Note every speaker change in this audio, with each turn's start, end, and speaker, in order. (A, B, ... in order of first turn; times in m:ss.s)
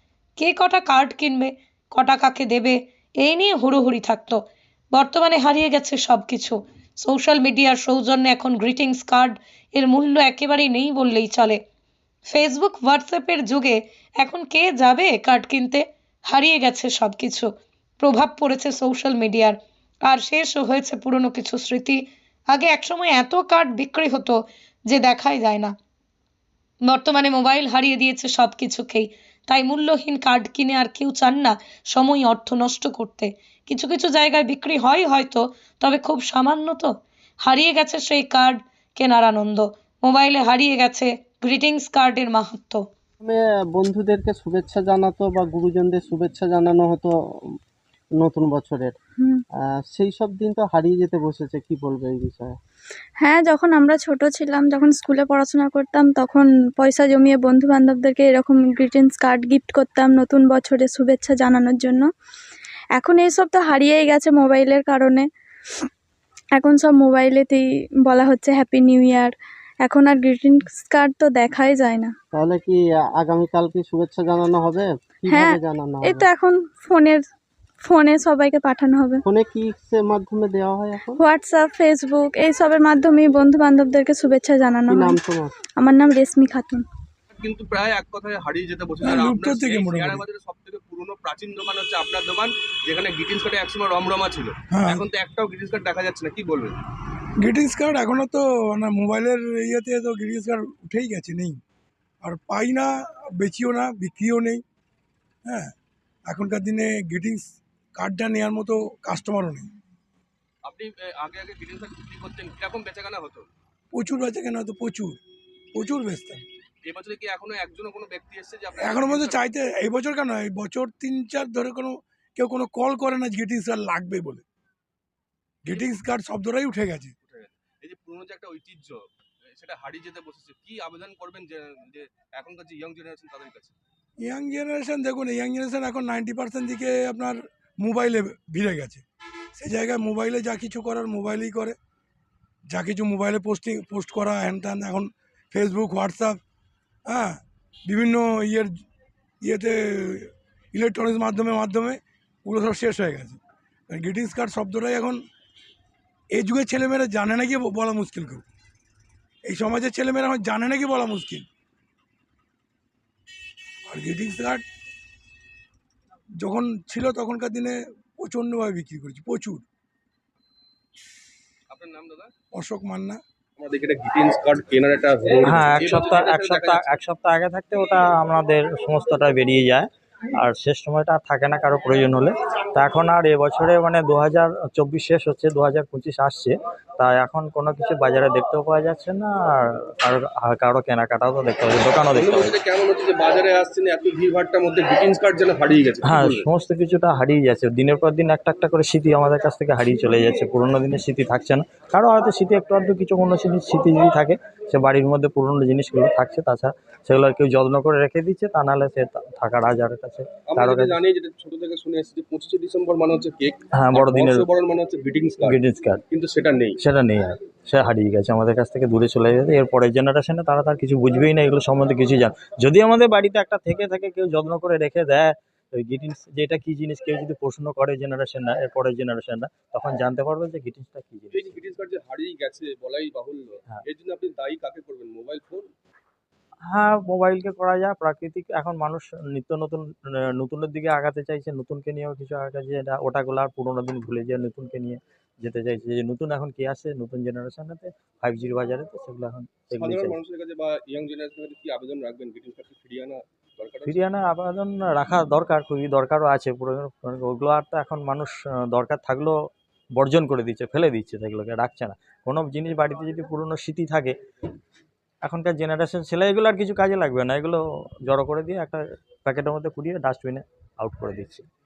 0:00.4-0:11.6 A
0:12.3-0:25.7 A
0:26.8-0:42.9 A
0:43.2-0:47.2 B
0:48.2-0:49.0 B
0:49.6-0:52.6 B
0:53.2-1:02.1 C
1:03.0-1:05.3 C
1:06.6-1:12.1 C
1:12.3-1:16.3 B
1:15.3-1:17.2 C
1:17.8-1:19.2 C
1:19.2-1:21.2 B
1:21.2-1:25.2 C
1:24.9-1:25.5 B
1:25.7-1:26.8 C
1:27.4-1:36.7 D
1:29.0-1:30.2 E
1:34.7-1:35.0 E
1:37.4-1:41.6 E
1:42.2-1:44.6 E
1:45.5-1:45.7 E
1:46.3-1:49.7 E
1:50.6-1:53.5 D
1:53.9-1:55.2 E
1:55.8-1:56.4 E
1:56.8-1:59.4 D
1:58.8-2:04.4 E
2:05.6-2:07.1 E
2:07.2-2:09.0 D
2:09.6-2:13.8 D
2:14.2-2:19.0 E
2:19.6-2:21.8 E
2:22.7-2:26.4 E
2:27.1-2:28.8 E
2:29.4-2:35.2 E
2:36.3-2:38.4 E
2:39.5-2:41.5 E
2:43.9-2:44.6 E
2:46.4-2:49.6 E
2:51.7-2:52.3 D
2:52.5-2:53.2 E
2:53.6-2:57.0 D
2:55.4-3:12.6 F
3:12.1-3:16.5 D
3:16.0-3:31.0 F
3:30.5-3:35.6 D
3:33.7-3:34.5 F
3:35.4-3:36.0 F
3:36.1-3:36.8 D
3:36.8-3:51.6 F
3:51.3-3:55.7 D
3:56.7-4:10.2 F
4:09.7-4:14.0 D
4:13.9-4:19.4 F
4:19.9-4:24.2 F
4:25.2-4:31.5 F